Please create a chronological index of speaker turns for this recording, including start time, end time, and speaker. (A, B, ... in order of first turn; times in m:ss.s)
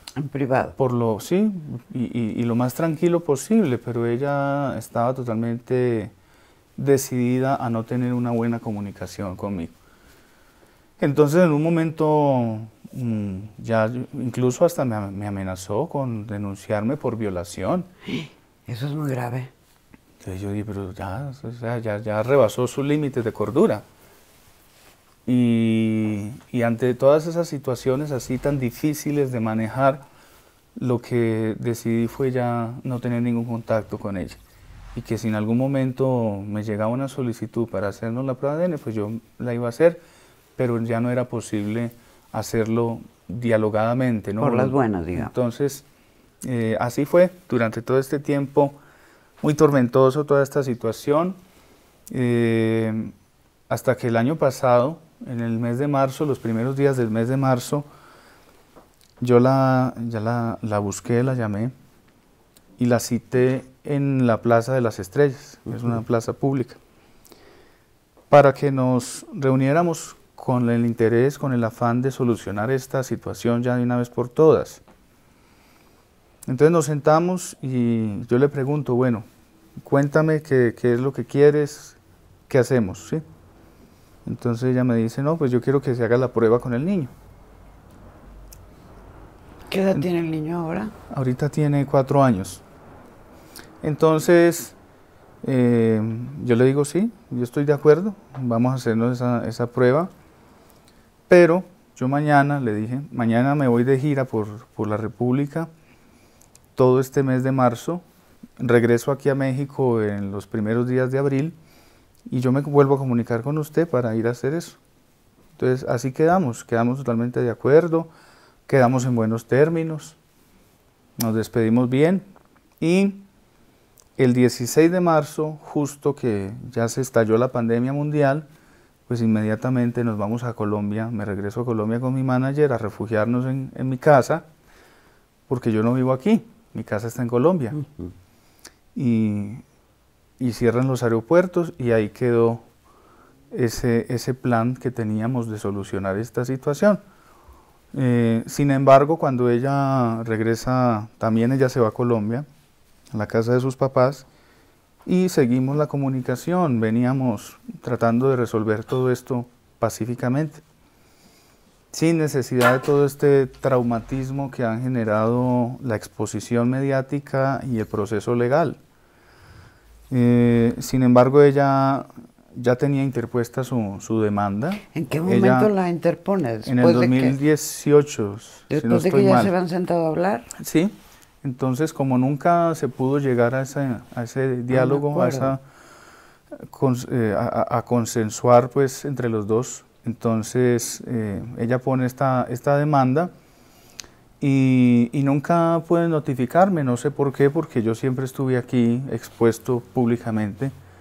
0:00.2-0:00.8 A
0:00.8-0:06.1 B
0:06.8-0:09.7 B
0:11.0-0:17.9 B
0:18.1-0:19.5 A
0:20.2-0:23.8 B
0:25.2-0:30.0 B
0:30.8-0:34.4 B
0:34.9-0:40.0 B
0:40.6-0:45.8 B
0:44.4-0:45.3 A
0:46.4-0:48.8 B
0:49.4-0:51.4 B
0:52.1-0:53.1 B
0:53.7-0:57.8 B
0:59.2-1:01.7 B
1:02.8-1:06.8 B
1:08.3-1:14.8 B
1:16.5-1:19.2 B
1:19.8-1:23.2 B
1:24.2-1:27.1 B
1:29.7-1:30.9 A
1:31.1-1:32.6 B
1:33.8-1:34.8 B
1:35.4-1:40.1 B
1:41.3-1:45.7 B
1:46.7-1:48.0 B
1:48.6-1:51.5 B
1:52.3-1:54.8 B
1:55.6-1:58.1 B
1:58.7-2:00.2 B
2:01.2-2:02.3 B
2:02.8-2:03.2 B
2:04.2-2:08.5 B
2:09.1-2:14.4 B
2:15.5-2:17.8 B
2:18.9-2:19.6 B
2:20.4-2:22.6 B
2:23.5-2:27.0 B
2:27.9-2:32.4 B
2:33.1-2:34.2 B
2:35.0-2:40.6 B
2:41.9-2:48.8 B
2:50.1-2:55.7 B
2:54.9-2:57.4 A
2:56.6-2:59.5 B
2:58.7-3:00.5 A
3:00.6-3:05.6 B
3:04.7-3:05.5 A
3:06.6-3:13.3 B
3:14.4-3:20.7 B